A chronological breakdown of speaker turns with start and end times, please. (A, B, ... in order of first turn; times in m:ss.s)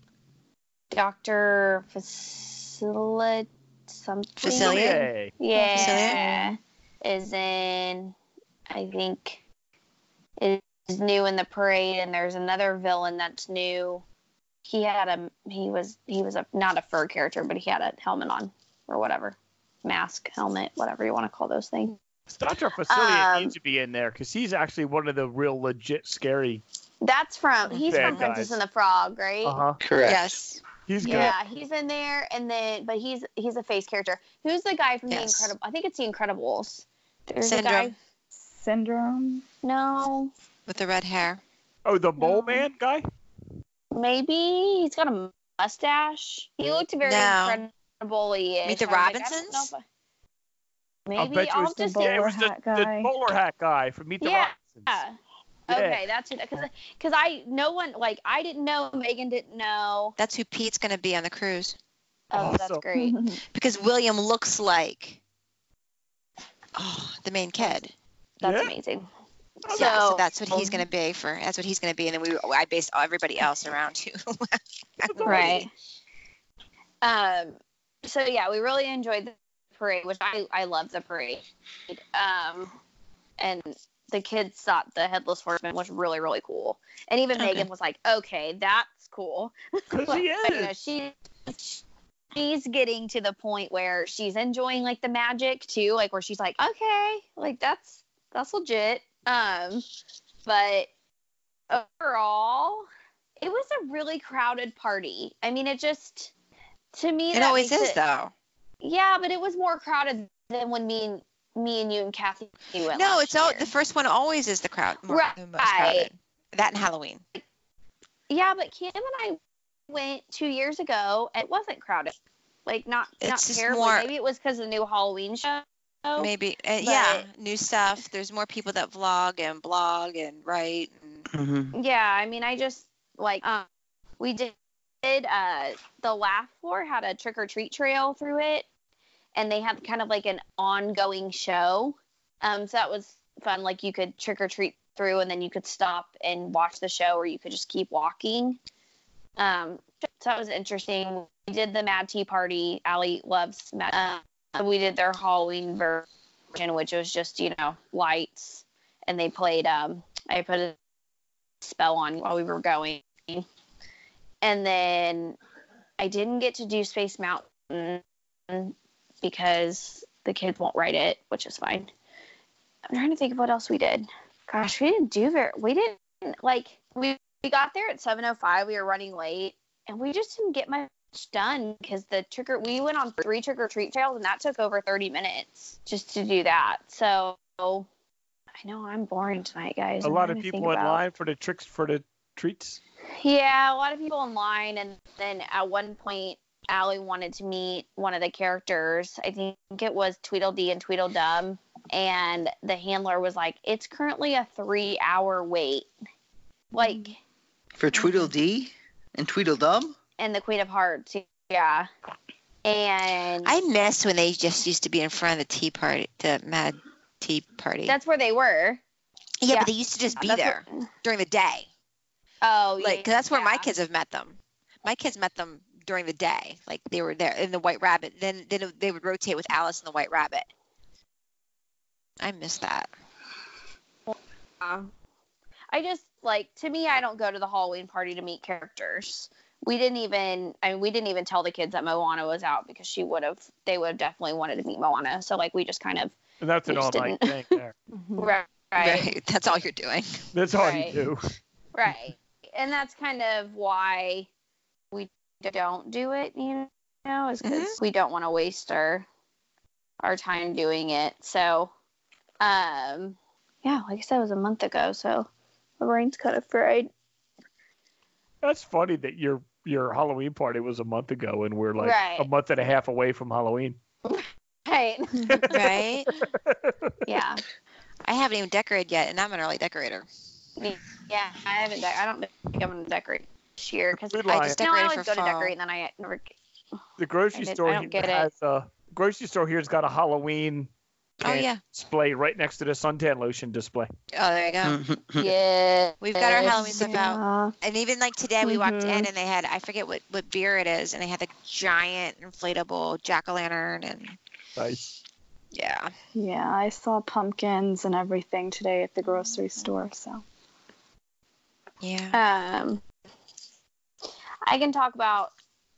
0:00.9-0:08.1 A
0:04.4-0:05.4 B
0:04.4-0:05.0 C
0:05.5-0:06.5 D
0:05.8-0:06.2 C
0:08.7-0:09.4 A
0:10.4-0:14.0 A
0:14.6-0:22.0 A
0:22.3-0:26.6 B
0:22.9-0:23.5 A
0:27.0-0:29.6 A
0:27.7-0:28.2 C
0:27.9-0:28.6 B
0:29.4-0:30.2 B
0:29.8-0:30.4 E
0:30.0-0:30.6 C
0:30.8-0:31.4 B
0:31.0-0:37.9 A
0:35.1-0:35.5 C
0:37.4-0:37.9 C
0:38.4-0:39.4 D
0:39.6-0:40.3 A
0:40.7-0:41.4 C
0:41.8-0:43.0 B
0:42.2-0:42.6 A
0:43.9-0:49.8 A
0:47.0-0:47.6 C
0:48.6-0:49.7 C
0:51.0-0:52.2 A
0:51.2-0:55.0 B
0:51.8-0:53.1 D
0:54.2-0:55.1 A
0:55.7-1:00.2 A
0:55.7-0:56.0 B
1:00.2-1:01.8 C
1:02.3-1:03.2 A
1:02.3-1:02.8 B
1:02.9-1:03.4 D
1:03.5-1:05.2 C
1:06.7-1:07.9 C
1:08.4-1:09.0 A
1:08.4-1:08.7 B
1:09.6-1:10.0 B
1:09.6-1:10.8 A
1:09.7-1:15.7 C
1:15.0-1:15.6 B
1:15.2-1:15.7 A
1:17.0-1:22.7 A
1:23.4-1:39.8 A
1:27.4-1:27.7 C
1:29.9-1:30.7 B
1:40.4-1:40.9 A
1:41.7-1:42.9 A
1:43.4-1:46.3 A
1:46.9-1:48.0 A
1:47.3-1:48.3 C
1:48.8-1:53.7 A
1:52.9-1:57.2 C
1:55.1-1:56.1 A
1:58.3-1:59.4 A
1:59.9-2:02.1 A
2:02.6-2:07.2 A
2:03.2-2:04.1 C
2:06.2-2:11.3 C
2:11.3-2:11.7 E
2:11.7-2:13.7 A
2:14.2-2:18.6 A
2:19.4-2:28.6 A
2:29.4-2:40.8 A
2:41.6-2:43.4 A
2:44.4-2:45.4 A
2:46.0-2:51.9 A
2:52.9-3:07.9 A
3:08.6-3:11.0 A
3:10.0-3:12.8 B
3:13.2-3:25.9 A
3:26.7-3:27.2 A
3:27.8-3:30.0 E
3:30.2-3:31.9 A
3:32.6-3:33.5 A
3:33.4-3:37.9 C
3:37.8-3:38.8 A
3:39.4-3:41.7 C
3:39.5-3:40.7 A
3:42.4-3:43.7 A
3:42.8-3:50.5 C
3:52.2-3:52.9 C
3:54.1-3:54.9 A
3:55.7-4:06.2 A
4:06.4-4:07.7 B
4:06.7-4:07.6 A
4:08.0-4:08.3 D
4:08.2-4:09.1 A
4:08.8-4:10.2 C
4:10.3-4:11.3 B
4:10.5-4:11.0 A
4:11.7-4:14.3 A
4:14.9-4:19.0 A
4:17.4-4:17.8 C
4:20.0-4:21.7 A
4:22.4-4:26.9 A
4:28.4-4:33.8 B
4:31.8-4:32.3 A
4:34.0-4:35.8 A
4:35.2-4:35.6 B
4:35.5-4:36.1 C
4:36.2-4:37.0 B
4:37.0-4:37.4 A
4:38.0-4:40.0 C
4:40.6-4:46.3 A
4:44.1-4:44.6 B
4:44.3-4:45.5 C
4:47.0-4:50.7 B
4:47.3-4:48.3 A
4:51.2-4:51.6 C
4:51.2-4:53.9 B
4:54.1-4:54.8 C
4:54.6-4:55.3 E
4:55.2-4:57.0 A
4:56.0-5:04.2 C
4:56.5-4:57.5 D
4:58.4-4:59.1 D
5:04.6-5:04.9 B
5:05.5-5:05.9 C
5:06.2-5:10.2 D
5:11.8-5:12.2 C
5:12.1-5:12.8 A
5:14.5-5:15.3 A